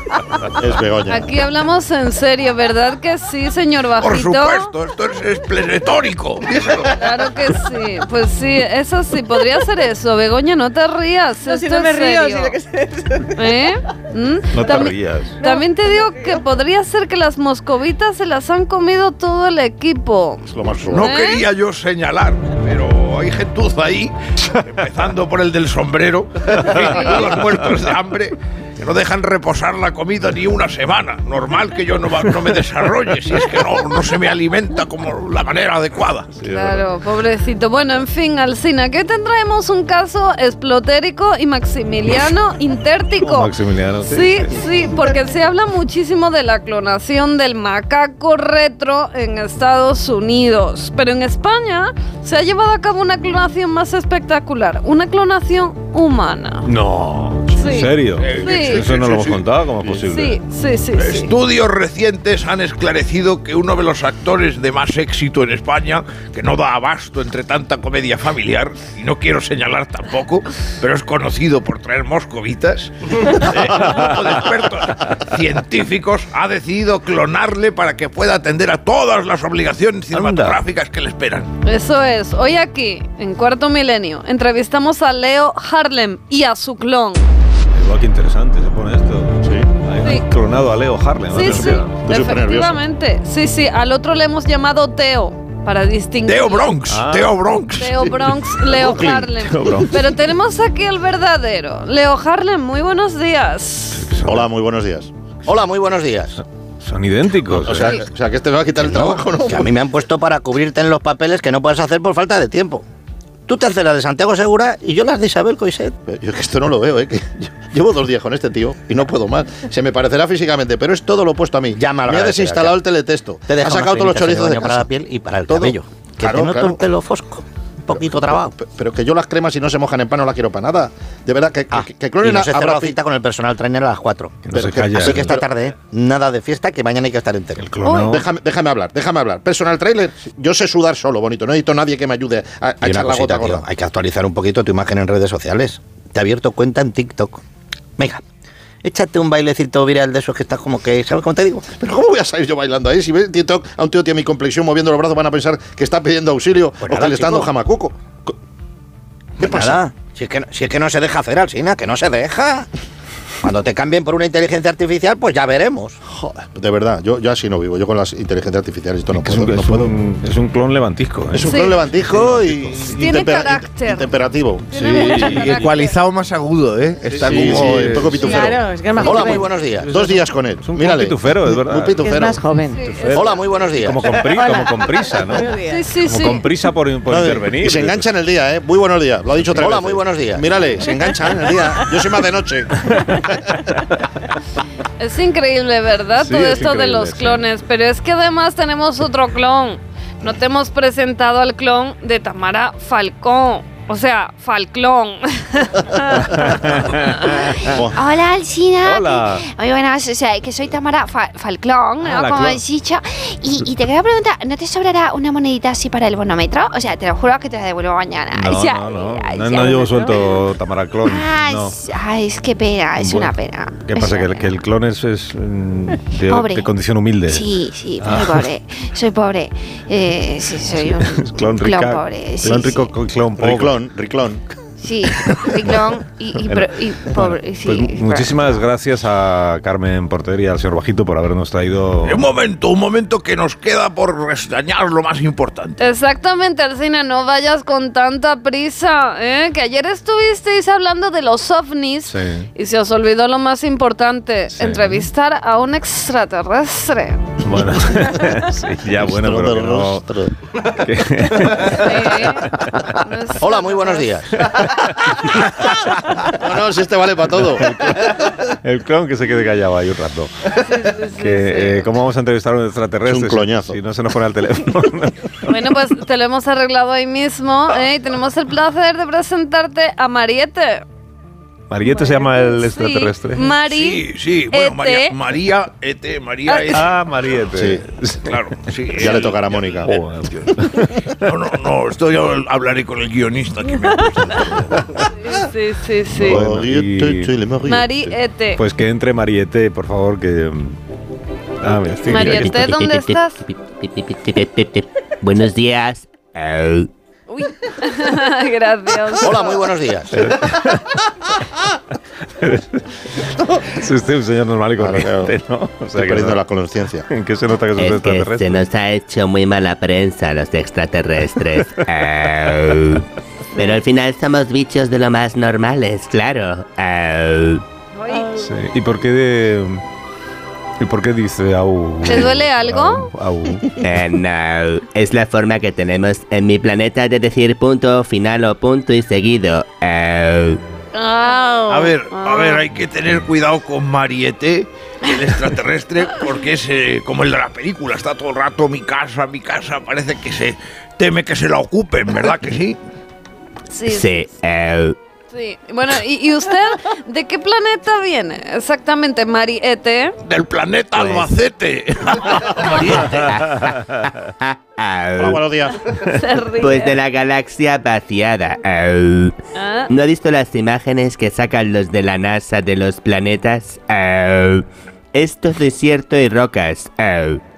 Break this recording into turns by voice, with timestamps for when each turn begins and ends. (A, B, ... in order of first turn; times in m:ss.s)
0:00.5-0:01.3 A
0:01.1-0:04.7 B
0:04.0-0:06.9 C
0:06.9-0:12.6 B
0:11.4-0:13.6 D
0:13.3-0:21.4 B
0:14.5-0:15.4 E
0:15.4-0:16.4 D
0:20.5-0:21.1 A
0:20.9-0:36.3 C
0:26.8-0:27.3 B
0:36.3-0:36.8 E
0:36.4-0:43.5 B
0:43.2-0:44.8 E
0:44.1-0:56.7 B
0:56.6-1:00.4 E
0:57.6-0:58.8 B
0:58.2-0:59.4 C
1:00.1-1:01.3 B
1:01.0-1:21.5 C
1:20.1-1:20.6 E
1:21.6-1:27.3 B
1:27.7-1:32.0 E
1:30.0-1:30.2 B
1:31.3-1:36.7 B
1:31.4-1:32.8 A
1:36.2-1:38.1 C
1:36.9-1:37.4 E
1:37.8-1:44.0 B
1:38.7-1:39.3 A
1:38.9-1:39.9 E
1:44.0-1:44.5 E
1:44.2-1:45.1 A
1:45.4-1:46.4 F
1:46.8-1:48.0 E
1:47.5-1:49.7 A
1:48.8-1:52.8 F
1:53.4-1:55.9 F
1:56.0-2:04.9 A
2:01.8-2:02.8 F
2:03.5-2:08.5 F
2:05.5-2:06.8 A
2:07.9-2:13.0 A
2:11.7-2:17.7 F
2:14.4-2:15.4 E
2:14.5-2:15.5 A
2:17.6-2:18.2 E
2:17.8-2:18.1 B
2:18.0-2:23.6 A
2:22.8-2:27.4 F
2:28.0-2:28.2 F
2:28.8-2:31.7 F
2:31.7-2:38.3 A
2:36.8-2:37.5 F
2:39.4-2:39.8 A
2:39.4-2:42.7 F
2:43.4-2:46.0 F
2:46.1-2:49.9 A
2:49.1-2:52.8 E
2:51.3-2:55.7 A
2:51.4-2:51.8 B
2:52.9-2:54.1 B
2:54.7-2:55.9 B
2:54.8-2:55.6 E
2:55.4-2:58.2 G
2:57.1-3:02.4 A
2:57.2-2:58.4 E
2:58.2-2:59.6 D
2:58.2-2:58.4 B
2:59.0-2:59.9 F
2:59.8-3:02.1 E
3:02.0-3:02.9 D
3:02.7-3:03.4 B
3:02.8-3:08.1 E
3:03.1-3:04.1 F
3:04.1-3:05.9 D
3:05.6-3:06.5 B
3:07.1-3:13.6 A
3:09.5-3:10.4 F
3:12.8-3:13.8 E
3:15.0-3:26.3 B
3:16.2-3:17.4 E
3:26.3-3:27.4 E
3:27.6-3:40.4 H
3:28.8-3:29.4 E
3:32.0-3:32.6 E
3:38.3-3:41.8 E
3:41.0-3:44.5 H
3:43.0-3:48.5 E
3:46.3-3:46.7 H
3:47.3-3:52.9 H
3:50.7-3:53.8 E
3:53.4-3:54.4 A
3:54.8-3:58.7 H
3:55.3-3:55.8 E
3:56.4-4:02.2 E
4:02.0-4:05.8 C
4:05.8-4:17.2 B
4:12.1-4:12.5 E
4:14.5-4:15.1 E
4:17.4-4:20.0 E
4:19.0-4:20.3 A
4:20.6-4:23.0 E
4:21.6-4:24.1 B
4:23.4-4:24.5 F
4:24.3-4:26.2 E
4:26.3-4:28.1 A
4:27.5-4:35.5 E
4:30.6-4:31.9 B
4:33.0-4:33.8 A
4:35.4-4:40.8 B
4:41.7-4:43.5 E
4:41.9-4:45.1 B
4:43.5-4:46.9 C
4:46.5-4:46.8 B
4:46.7-4:48.5 E
4:47.5-4:47.8 A
4:48.2-4:49.8 C
4:49.0-4:50.0 A
4:49.8-4:51.3 E
4:51.2-4:54.7 C
4:55.2-4:56.4 B
4:56.2-4:58.0 A
4:56.2-4:57.3 E
4:57.6-4:58.6 B
4:58.6-5:00.8 E
5:01.6-5:02.7 E
5:02.0-5:03.4 B
5:02.1-5:06.9 I
5:07.3-5:09.7 B
5:09.2-5:10.2 F
5:10.1-5:10.9 E
5:12.4-5:12.8 E
5:13.6-5:16.4 E
5:14.8-5:15.3 A
5:15.9-5:17.1 A
5:17.1-5:18.6 E
5:17.8-5:27.6 I
5:28.0-5:28.4 B
5:28.3-5:29.8 E
5:30.8-5:33.8 E
5:32.0-5:33.1 B
5:33.8-5:40.6 I
5:40.9-5:42.6 B
5:41.7-5:52.8 C
5:53.7-5:54.2 B
5:53.8-5:55.0 I
5:55.3-6:00.2 B
6:00.2-6:03.2 C
6:00.9-6:01.3 I
6:02.8-6:05.4 I
6:05.2-6:05.8 A
6:06.1-6:07.0 B
6:06.6-6:09.4 I
6:09.5-6:09.9 B
6:09.9-6:17.4 I